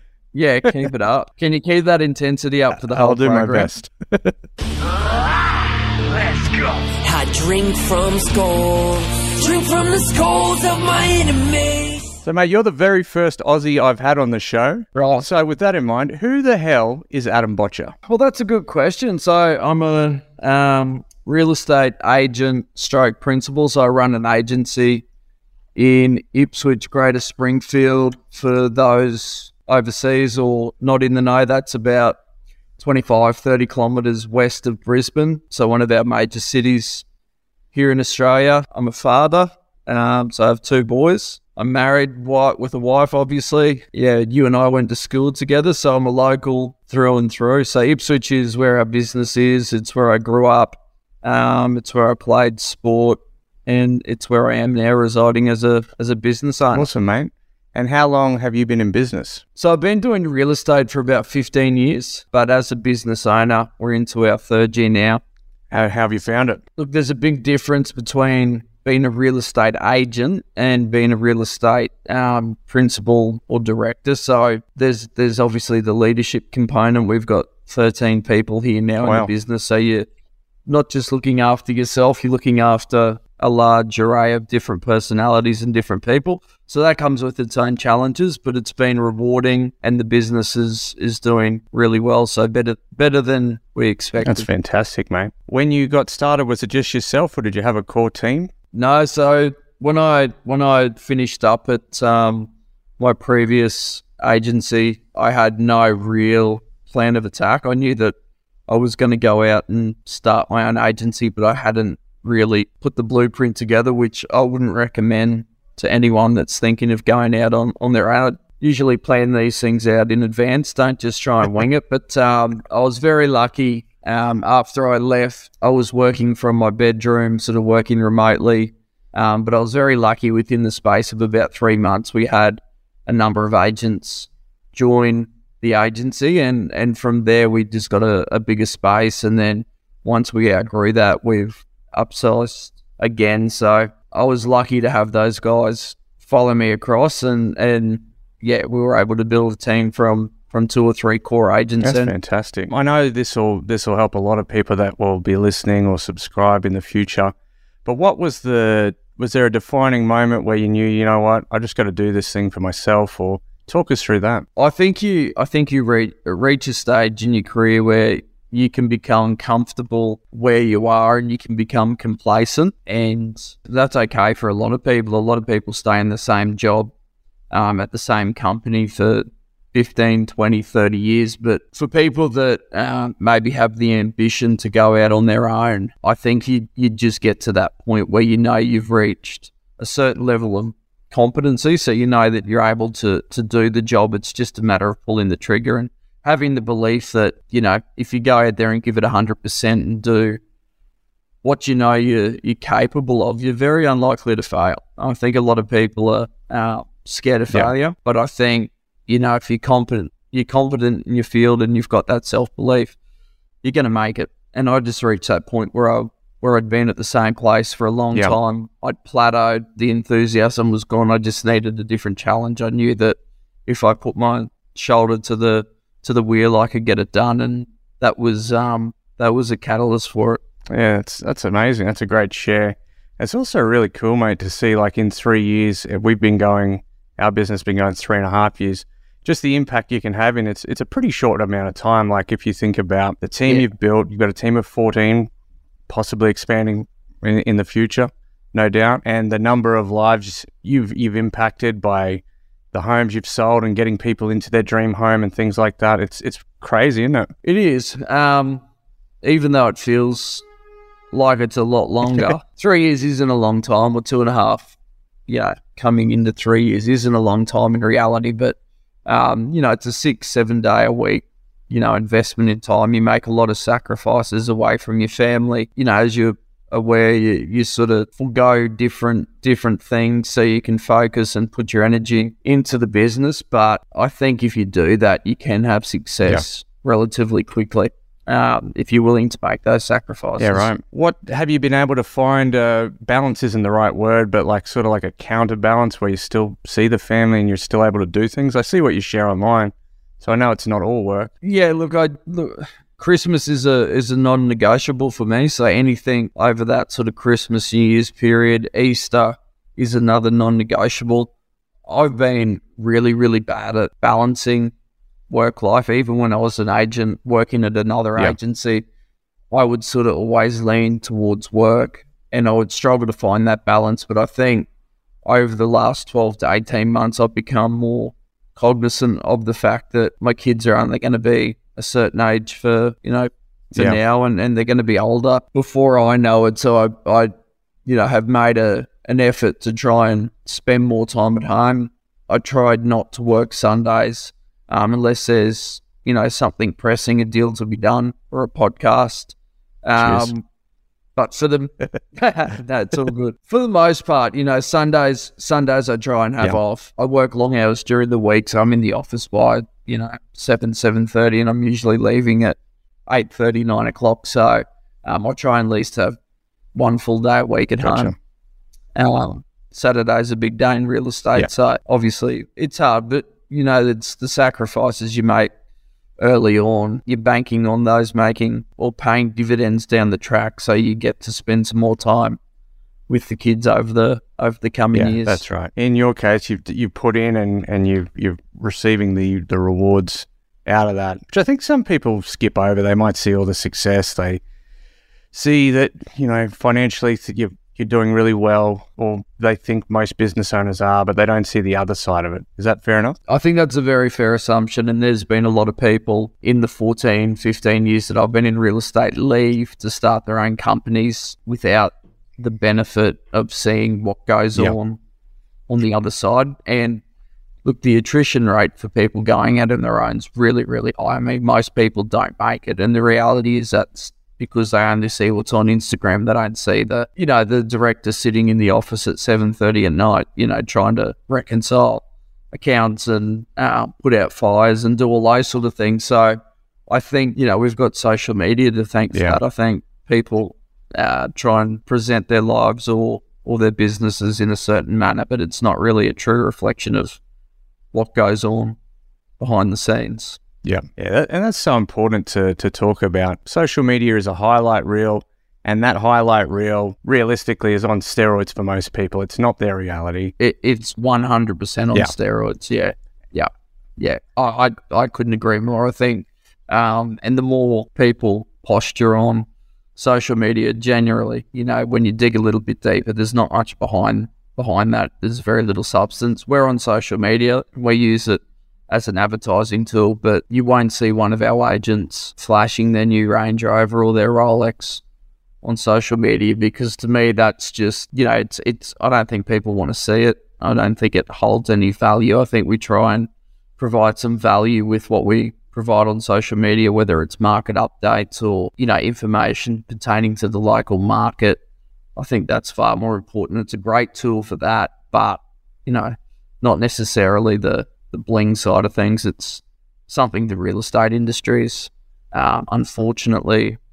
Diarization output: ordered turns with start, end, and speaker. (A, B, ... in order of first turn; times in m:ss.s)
0:00.3-0:03.7 A
0:02.8-0:04.3 B
0:05.0-0:05.4 C
0:06.1-0:12.1 C
0:12.2-0:18.0 B
0:15.0-0:15.2 A
0:18.0-0:25.0 A
0:25.8-0:32.2 A
0:32.8-0:37.0 A
0:37.7-0:56.9 A
0:56.7-0:59.4 B
0:59.6-1:05.2 A
1:05.7-1:06.6 B
1:06.8-1:20.1 A
1:19.0-1:19.3 B
1:20.7-1:34.5 A
1:34.2-1:38.5 B
1:38.7-1:48.1 A
1:48.7-2:32.1 A
2:31.8-2:37.3 B
2:37.8-2:44.5 B
2:44.6-2:56.9 A
2:57.5-3:20.4 A
3:21.4-3:33.0 A
3:33.6-3:50.4 A
3:50.7-4:05.3 B
4:05.9-4:17.3 B
4:17.4-4:18.6 A
4:19.2-4:20.4 A
4:21.1-4:24.7 A
4:25.3-4:50.7 A
4:50.4-5:01.3 B
5:01.4-5:11.3 A
5:11.9-5:14.7 A
5:15.3-5:18.8 A
5:19.5-5:24.7 A
5:25.2-5:37.3 A
5:37.9-5:50.4 A
5:50.0-5:50.3 B
5:51.2-6:06.2 A
6:06.8-6:08.2 A
6:07.8-6:08.1 B
6:09.0-6:15.5 A
6:16.2-6:22.4 A
6:23.1-6:25.4 A
6:24.9-6:34.4 B
6:35.3-6:43.2 B
6:43.3-6:55.0 A
6:55.7-6:57.0 A
6:57.6-7:27.2 A
7:19.1-7:19.4 B
7:27.9-7:28.8 A
7:29.4-7:30.4 A
7:30.6-7:40.3 B
7:40.4-8:05.0 A
8:05.6-8:21.6 A
8:22.2-8:33.8 A